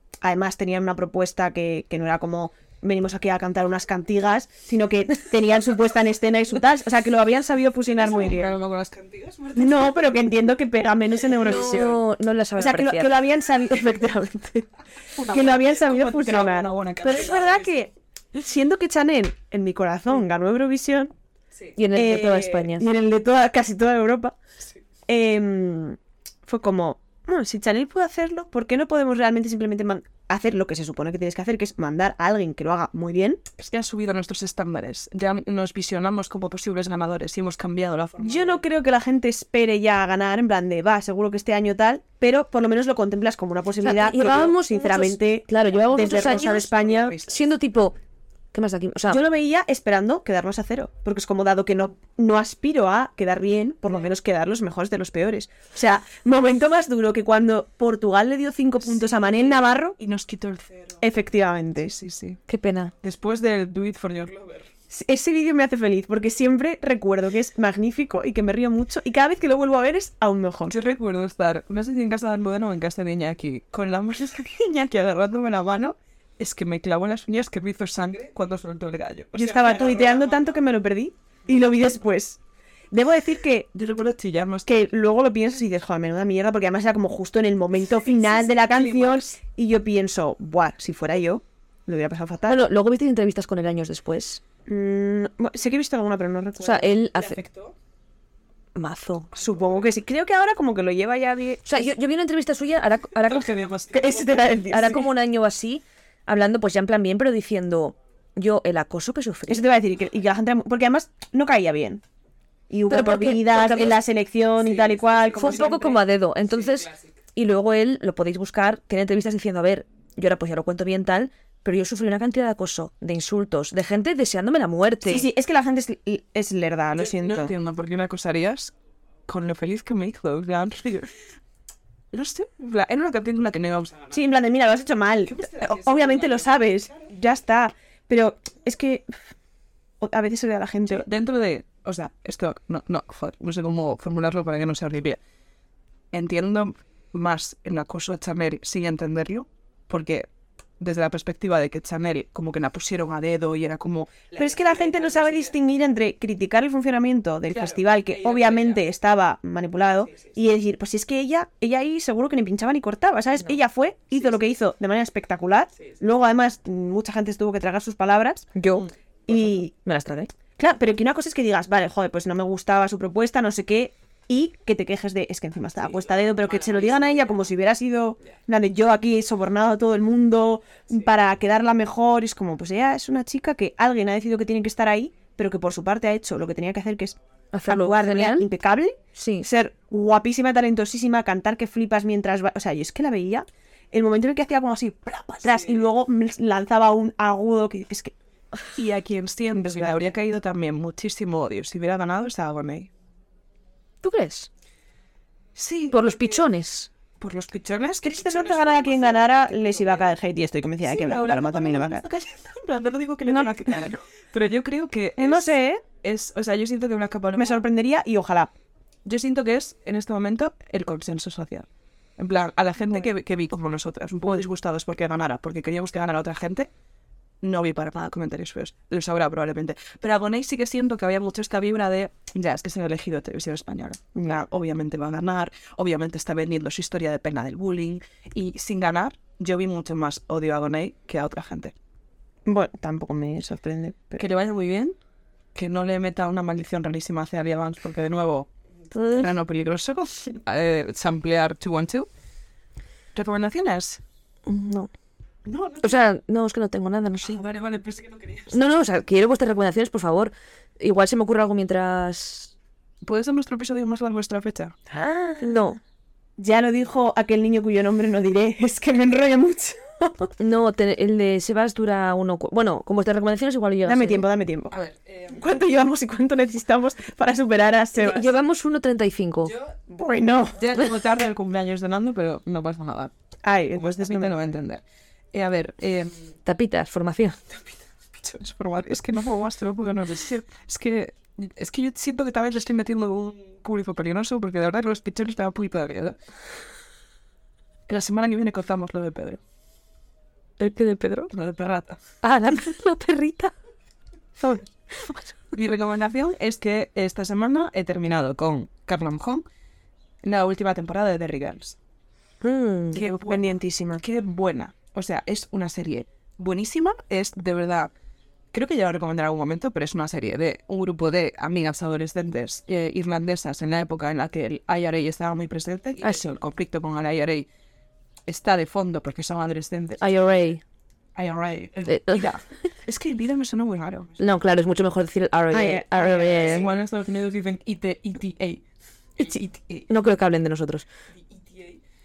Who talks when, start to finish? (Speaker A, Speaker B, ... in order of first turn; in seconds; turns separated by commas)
Speaker A: 0.2-8.5, Speaker B: 8.0-10.3, Speaker A: 9.6-12.0, Speaker B: 11.2-12.0, Speaker C: 11.4-13.1, Speaker A: 12.6-14.7, Speaker B: 15.2-17.9, Speaker A: 15.3-21.1, Speaker C: 21.8-22.9, Speaker A: 21.9-24.4, Speaker A: 25.1-33.4, Speaker B: 33.6-38.6, Speaker A: 38.2-47.2, Speaker C: 43.8-46.7, Speaker B: 45.9-47.3, Speaker C: 47.2-48.0, Speaker C: 48.5-49.2, Speaker A: 49.1-60.0, Speaker B: 58.9-61.1, Speaker A: 61.0-62.0, Speaker B: 61.9-62.4, Speaker C: 62.5-62.9, Speaker B: 63.0-64.7, Speaker A: 64.9-70.7, Speaker B: 70.7-80.6, Speaker A: 79.3-82.4, Speaker A: 82.9-83.7, Speaker B: 83.7-84.7, Speaker A: 84.7-92.6, Speaker B: 88.1-89.3, Speaker C: 92.5-94.4, Speaker A: 94.7-96.9, Speaker C: 96.6-97.4, Speaker B: 97.1-97.8, Speaker C: 98.8-99.4, Speaker A: 99.4-101.8, Speaker C: 101.7-103.5, Speaker B: 103.3-104.4, Speaker A: 103.9-105.1, Speaker C: 104.7-109.7, Speaker A: 109.5-112.0, Speaker A: 112.7-115.8, Speaker C: 112.9-113.9, Speaker B: 114.6-116.0, Speaker C: 115.4-125.3, Speaker B: 116.5-117.1, Speaker A: 125.1-127.5, Speaker B: 127.0-128.7, Speaker B: 129.3-131.1, Speaker B: 132.1-134.2, Speaker A: 134.1-139.1, Speaker B: 135.3-137.0, Speaker A: 140.0-141.1, Speaker B: 140.9-145.2, Speaker B: 146.1-150.3, Speaker B: 150.8-155.5, Speaker A: 154.4-168.5, Speaker B: 157.5-158.8, Speaker C: 168.6-170.3, Speaker A: 169.3-169.7, Speaker A: 170.6-198.1, Speaker B: 175.8-177.4, Speaker C: 187.5-188.5, Speaker C: 189.2-189.5, Speaker B: 195.5-195.8, Speaker B: 198.8-202.9, Speaker C: 204.0-204.5, Speaker B: 205.6-206.4, Speaker C: 205.9-206.9, Speaker B: 207.2-210.1, Speaker A: 208.0-212.0, Speaker B: 210.8-217.6, Speaker A: 213.3-213.8, Speaker A: 215.2-215.8, Speaker A: 217.4-218.5, Speaker B: 219.1-221.7, Speaker B: 222.2-226.7, Speaker B: 227.4-241.7, Speaker A: 242.5-244.2, Speaker B: 244.2-245.0, Speaker B: 245.6-248.5, Speaker C: 248.9-249.3, Speaker B: 249.1-252.1, Speaker B: 253.2-254.0, Speaker C: 254.5-254.9, Speaker B: 255.5-256.0, Speaker C: 255.8-257.4, Speaker B: 257.2-258.6, Speaker C: 258.5-262.5, Speaker B: 263.0-264.8, Speaker A: 264.9-265.4, Speaker C: 265.4-265.8, Speaker A: 266.4-270.3, Speaker C: 270.4-274.2, Speaker A: 273.9-274.7, Speaker B: 274.7-275.4, Speaker A: 275.3-278.3, Speaker C: 278.0-279.6, Speaker B: 279.5-279.8, Speaker A: 279.9-280.8, Speaker B: 280.6-283.1, Speaker A: 283.4-284.3, Speaker B: 283.8-284.8, Speaker B: 285.3-286.3, Speaker C: 286.4-287.4, Speaker B: 288.2-296.2, Speaker B: 297.9-299.4, Speaker C: 300.6-301.3, Speaker B: 301.3-302.0, Speaker C: 302.2-303.5, Speaker C: 304.4-305.3, Speaker B: 305.5-309.4, Speaker B: 310.2-311.8, Speaker C: 312.4-313.0, Speaker B: 312.9-313.4, Speaker A: 313.1-314.0, Speaker B: 314.0-317.9, Speaker B: 318.5-327.5, Speaker B: 328.3-330.0, Speaker C: 330.0-330.6, Speaker B: 331.2-334.2, Speaker C: 331.9-332.3, Speaker C: 334.2-336.7, Speaker A: 335.5-336.5, Speaker B: 335.9-338.6, Speaker B: 339.2-339.9, Speaker C: 339.9-340.9, Speaker B: 341.3-341.8